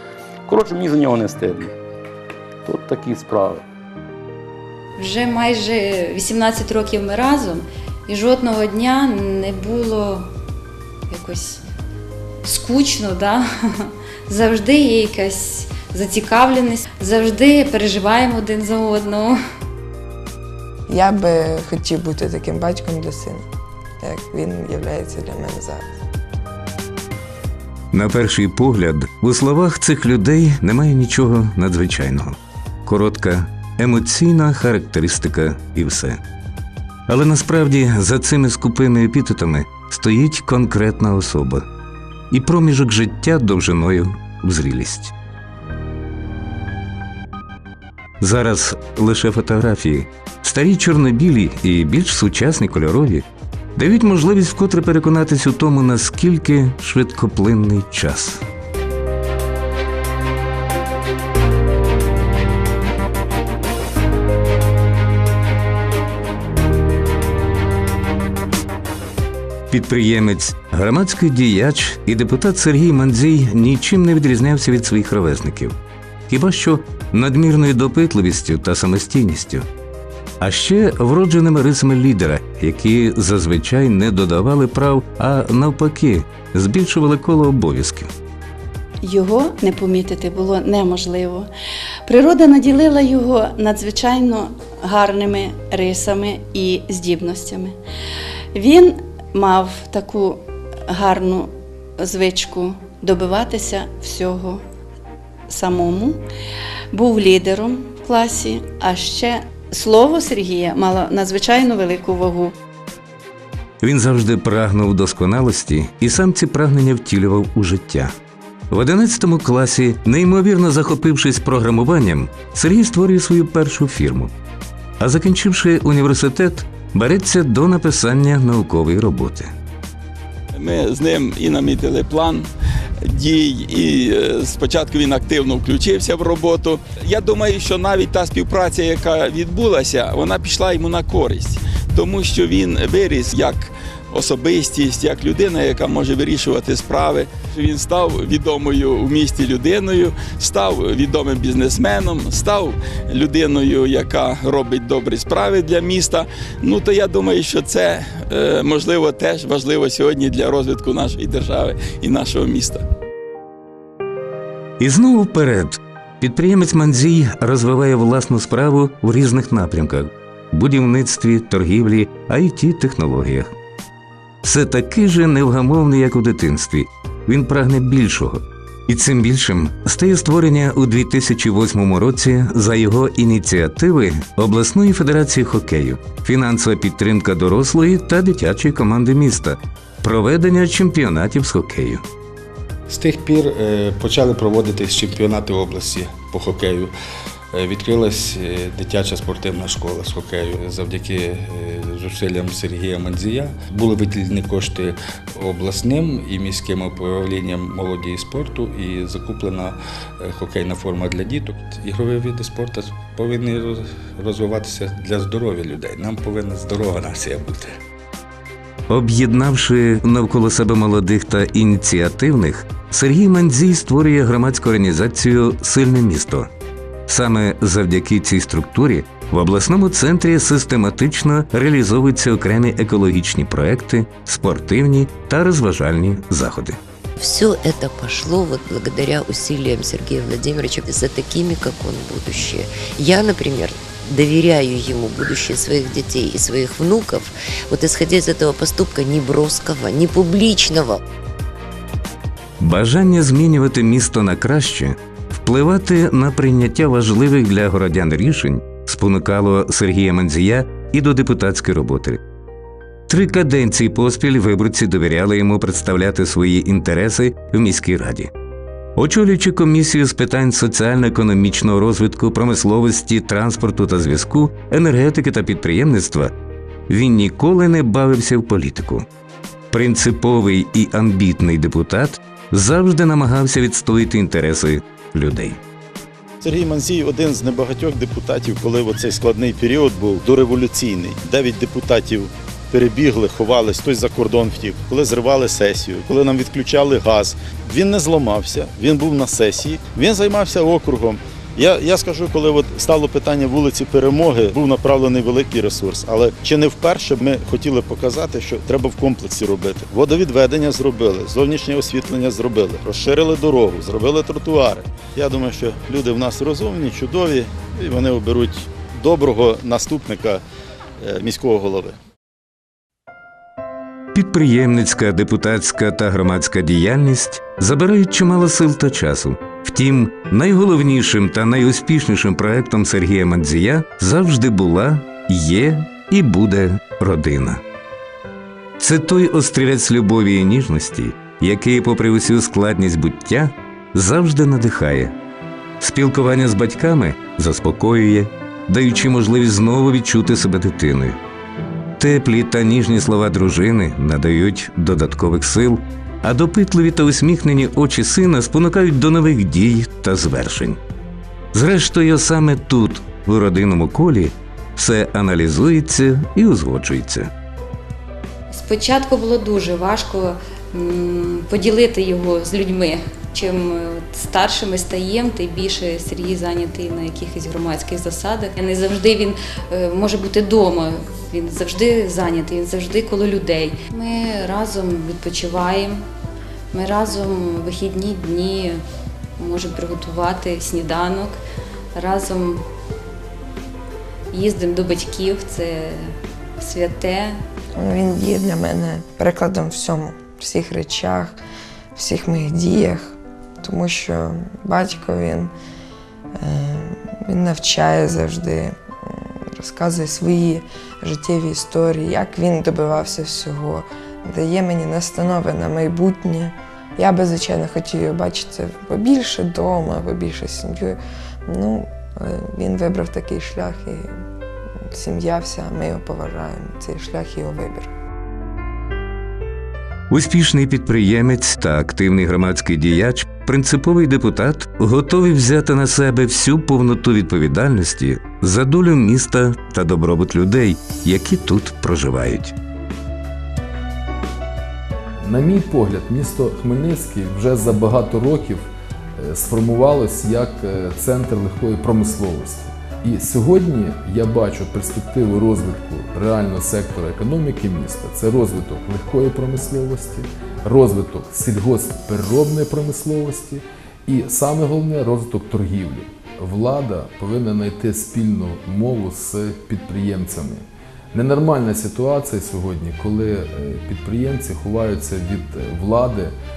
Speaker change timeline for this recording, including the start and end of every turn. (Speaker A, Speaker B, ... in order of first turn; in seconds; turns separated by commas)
Speaker A: 0.5-1.7, Speaker A: 2.6-3.6, Speaker B: 5.0-10.3, Speaker B: 11.1-11.6, Speaker B: 12.4-19.4, Speaker C: 20.9-23.4, Speaker C: 24.0-25.9, Speaker D: 27.9-36.2, Speaker D: 37.1-41.6, Speaker D: 42.3-45.1, Speaker D: 48.2-58.4, Speaker D: 69.7-75.8, Speaker D: 76.3-79.7, Speaker D: 80.4-88.1, Speaker E: 89.0-91.5, Speaker E: 92.1-97.8, Speaker E: 98.5-104.6, Speaker E: 105.5-106.2, Speaker E: 106.9-112.5, Speaker D: 113.8-118.1, Speaker D: 118.7-124.3, Speaker D: 125.0-129.5, Speaker F: 130.5-132.5, Speaker F: 133.1-162.8, Speaker D: 164.8-173.5, Speaker D: 174.4-192.0, Speaker G: 192.9-196.9, Speaker G: 197.5-217.6, Speaker D: 218.9-226.5, Speaker D: 227.1-236.8, Speaker H: 237.2-251.0, Speaker D: 252.6-262.2, Speaker D: 263.1-268.3, Speaker D: 269.0-276.3, Speaker D: 276.9-279.1, Speaker D: 279.7-285.6, Speaker I: 286.4-320.4, Speaker I: 321.0-322.0, Speaker D: 324.1-337.6, Speaker D: 338.8-345.1, Speaker D: 345.8-351.2, Speaker D: 352.0-360.8, Speaker D: 361.5-367.3, Speaker B: 368.5-386.0, Speaker B: 386.7-388.8, Speaker B: 389.4-391.4, Speaker B: 391.9-392.6, Speaker B: 394.3-397.4, Speaker C: 397.8-401.4, Speaker C: 401.9-405.5, Speaker C: 406.4-424.1, Speaker C: 424.9-427.9, Speaker D: 430.1-442.5, Speaker J: 445.2-476.3